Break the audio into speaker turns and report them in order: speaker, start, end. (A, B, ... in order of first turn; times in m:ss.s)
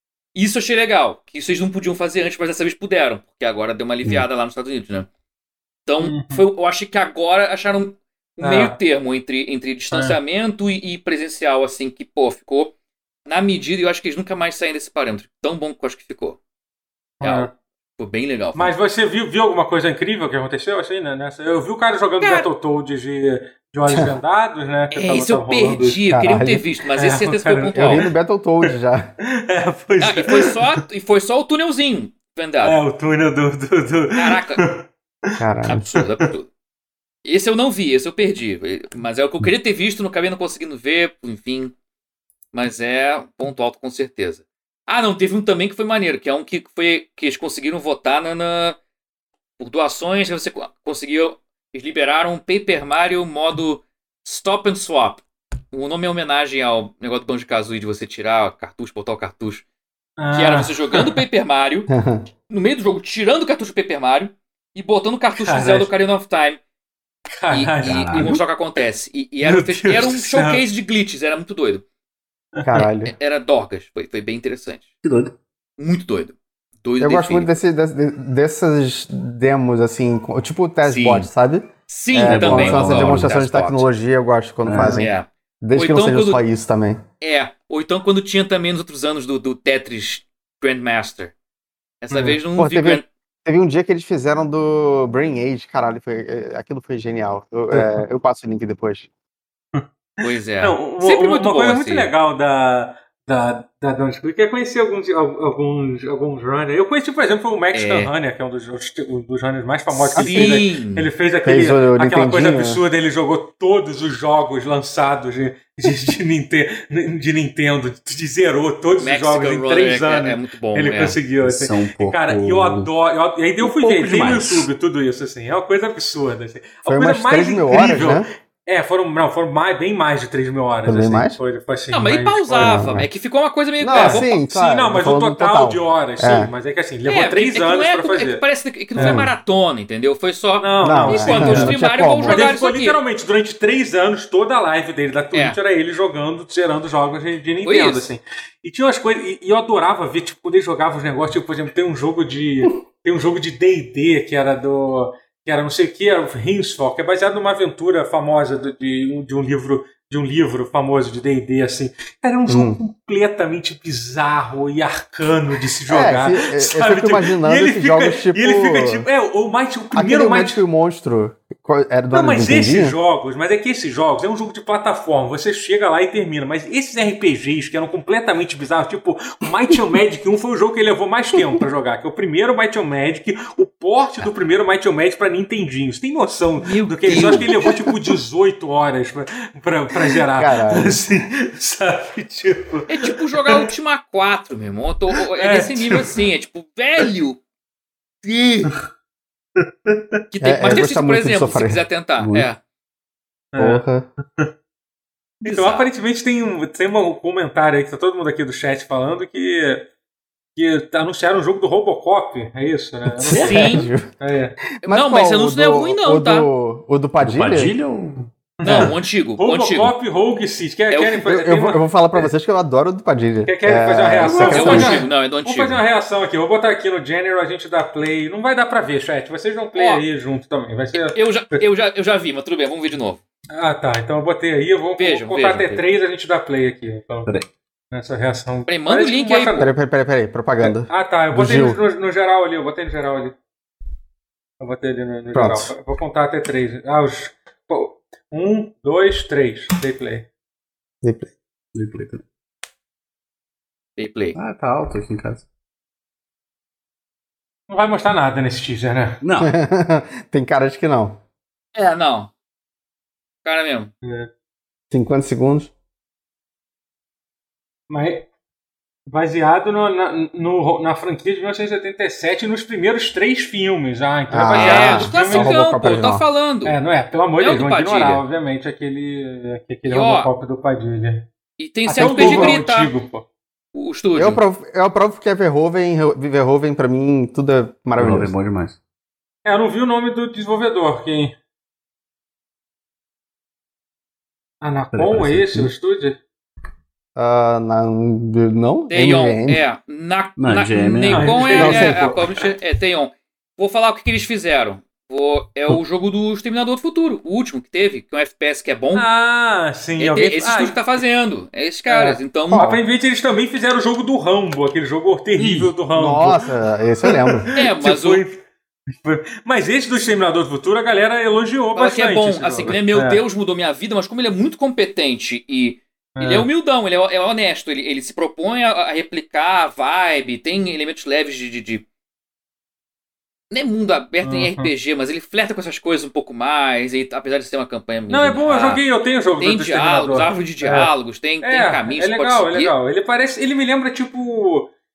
0:00.4-0:05.1 A
0:05.9-0:12.7 A
0:06.0-0:06.4 B
0:08.4-0:08.8 B
0:09.9-0:10.2 B
0:13.3-0:16.4 A
0:17.2-0:17.5 B
0:17.2-0:18.7 A
0:18.6-0:26.0 B
0:22.2-0:22.5 A
0:23.9-0:24.2 C
0:24.9-0:28.0 A
0:26.1-0:26.7 C
0:27.0-0:28.1 B
0:27.8-0:29.1 C
0:28.7-0:30.7 B
0:30.0-0:32.8 A
0:32.6-0:35.3 B
0:34.2-0:34.6 A
0:35.4-0:35.9 C
0:35.7-0:36.5 A
0:37.2-0:41.7 A
0:42.5-0:48.8 A
0:49.6-0:59.6 A
1:00.2-1:01.2 B
1:00.3-1:01.9 A
1:01.9-1:02.3 C
1:02.5-1:06.6 A
1:05.4-1:05.9 B
1:07.4-1:08.4 B
1:07.5-1:11.8 A
1:07.8-1:08.3 D
1:09.4-1:10.6 B
1:12.6-1:12.9 B
1:12.6-1:13.1 C
1:13.0-1:14.9 A
1:15.0-1:15.4 D
1:15.8-1:17.5 A
1:17.0-1:27.0 C
1:20.8-1:21.3 A
1:21.9-1:23.9 A
1:22.2-1:23.4 D
1:24.7-1:25.1 D
1:24.9-1:26.4 A
1:27.2-1:31.3 A
1:32.0-1:33.1 A
1:32.1-1:32.4 B
1:32.6-1:39.1 C
1:39.7-2:12.9 B
1:40.2-1:42.1 A
1:47.7-1:48.1 A
1:50.1-1:50.6 C
1:50.1-1:51.1 A
1:51.4-1:52.8 C
1:59.0-2:01.2 A
2:01.4-2:02.9 D
2:03.6-2:04.7 D
2:06.9-2:08.3 C
2:10.8-2:11.4 C
2:11.9-2:14.4 A
2:12.6-2:13.1 C
2:13.8-2:16.5 C
2:13.9-2:18.4 B
2:17.1-2:23.0 A
2:19.0-2:19.3 B
2:19.0-2:19.3 C
2:20.6-2:50.6 B
2:20.8-2:22.5 C
2:27.6-2:28.1 A
2:42.5-2:42.8 C
2:45.9-2:49.1 C
2:49.9-2:53.0 C
2:52.1-3:13.7 B
3:06.6-3:07.7 A
3:07.1-3:07.9 C
3:10.3-3:11.0 C
3:12.9-3:17.4 A
3:15.2-3:16.2 B
3:18.2-3:18.7 A
3:19.6-3:20.0 B
3:20.3-3:22.6 A
3:20.4-3:21.8 C
3:22.2-3:22.5 D
3:23.5-3:23.8 B
3:23.6-3:24.1 C
3:25.4-3:29.9 B
3:25.4-3:25.9 A
3:30.6-3:34.6 B
3:33.1-3:34.1 C
3:33.3-3:33.6 D
3:33.3-3:33.9 A
3:34.8-3:37.7 C
3:34.8-3:36.5 A
3:37.2-3:38.3 D
3:38.6-3:42.3 B
3:38.6-3:39.9 A
3:40.9-3:41.2 A
3:41.2-3:45.0 C
3:43.5-3:51.6 B
3:44.2-3:44.9 D
3:44.5-3:45.8 A
3:49.8-3:50.0 A
3:50.9-3:53.2 A
3:53.5-3:57.3 B
3:55.0-3:55.8 A
3:57.9-3:59.7 B
3:58.7-3:59.6 A
3:59.6-4:01.8 C
4:00.6-4:03.4 B
4:04.6-4:10.3 B
4:05.3-4:05.7 C
4:11.0-4:11.3 C
4:11.7-4:12.2 D
4:14.0-4:14.4 A
4:14.4-4:15.4 D
4:17.7-4:19.2 B
4:19.2-4:19.6 D
4:19.4-4:21.2 C
4:21.8-4:22.3 A
4:23.4-4:23.9 A
4:24.0-4:24.3 B
4:24.9-4:25.7 C
4:27.9-4:28.3 B
4:29.1-4:35.6 B
4:34.3-4:36.2 C
4:34.6-4:36.8 A
4:36.6-4:41.3 B
4:37.4-4:38.2 A
4:39.9-4:40.3 A
4:41.6-4:42.9 A
4:41.9-4:43.2 B
4:42.0-4:42.6 C
4:43.7-4:44.4 A
4:44.2-4:48.3 C
4:48.0-4:48.8 D
4:49.4-4:51.4 B
4:54.6-4:56.2 B
4:54.9-4:55.7 D
4:57.2-4:59.6 C
4:58.9-5:09.1 A
5:00.4-5:01.5 D
5:01.1-5:02.5 B
5:01.5-5:02.1 C
5:08.9-5:11.0 B
5:10.0-5:12.7 A
5:11.9-5:16.5 B
5:15.4-5:15.7 D
5:15.9-5:17.5 C
5:17.0-5:23.2 B
5:17.6-5:18.2 A
5:21.8-5:31.8 A
5:26.2-5:26.5 B
5:33.5-5:38.8 A
5:34.2-5:34.7 B
5:38.1-5:44.7 B
5:39.4-5:42.7 A